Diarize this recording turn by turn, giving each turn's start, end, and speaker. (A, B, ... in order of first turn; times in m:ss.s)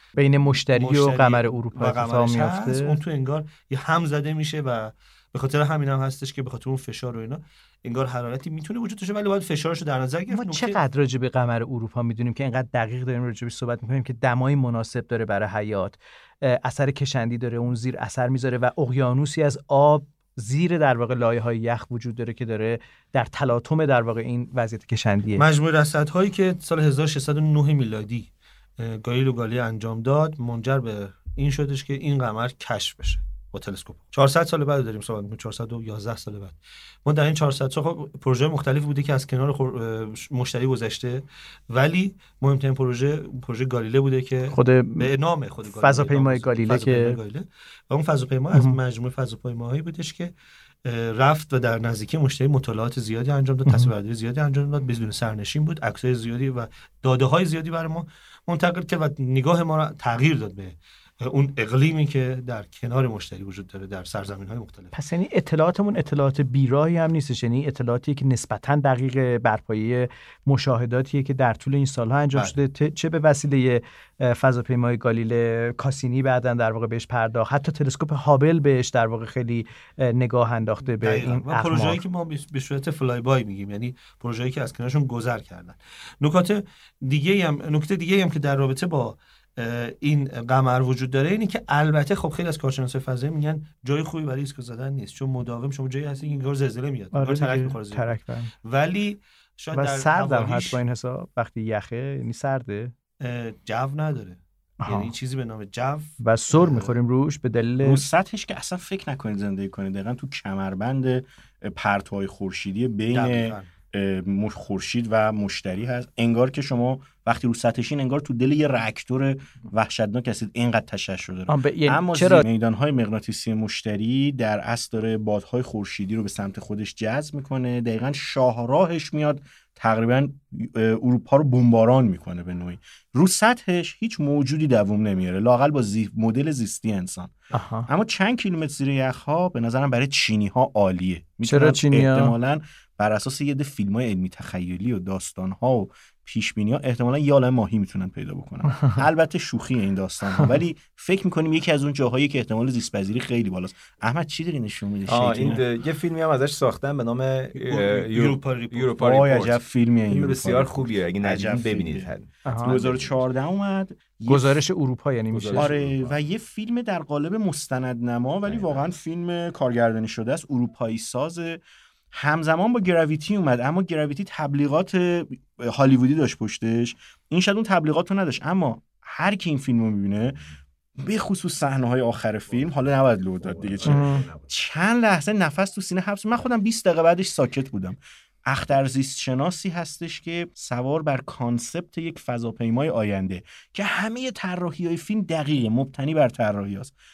0:00.2-0:03.0 A
0:00.8-0:10.8 B
0:10.3-0:25.4 A
0:25.4-0:50.3 B
0:44.5-0:45.1 A
0:45.7-0:47.2 A
0:48.5-0:48.8 A
0:50.8-1:04.9 B
1:04.9-1:22.0 A
1:21.0-1:40.8 B
1:37.1-1:38.5 A
1:39.7-1:42.9 A
1:43.2-1:46.1 B
1:44.8-1:45.1 A
1:46.2-1:48.0 A
1:46.5-1:46.9 C
1:47.8-2:35.6 C
1:53.1-1:53.7 B
2:01.5-2:02.4 A
2:17.5-2:17.9 A
2:21.4-2:22.3 A
2:35.1-2:43.2 D
2:37.5-2:39.0 B
2:39.0-2:42.1 C
2:42.4-2:42.8 A
2:42.6-2:44.5 C
2:44.2-2:45.7 A
2:45.3-2:46.2 D
2:45.6-2:51.6 C
2:48.4-2:48.9 D
2:52.1-3:00.4 C
3:01.0-3:16.9 C
3:03.5-3:04.5 D
3:03.8-3:04.2 A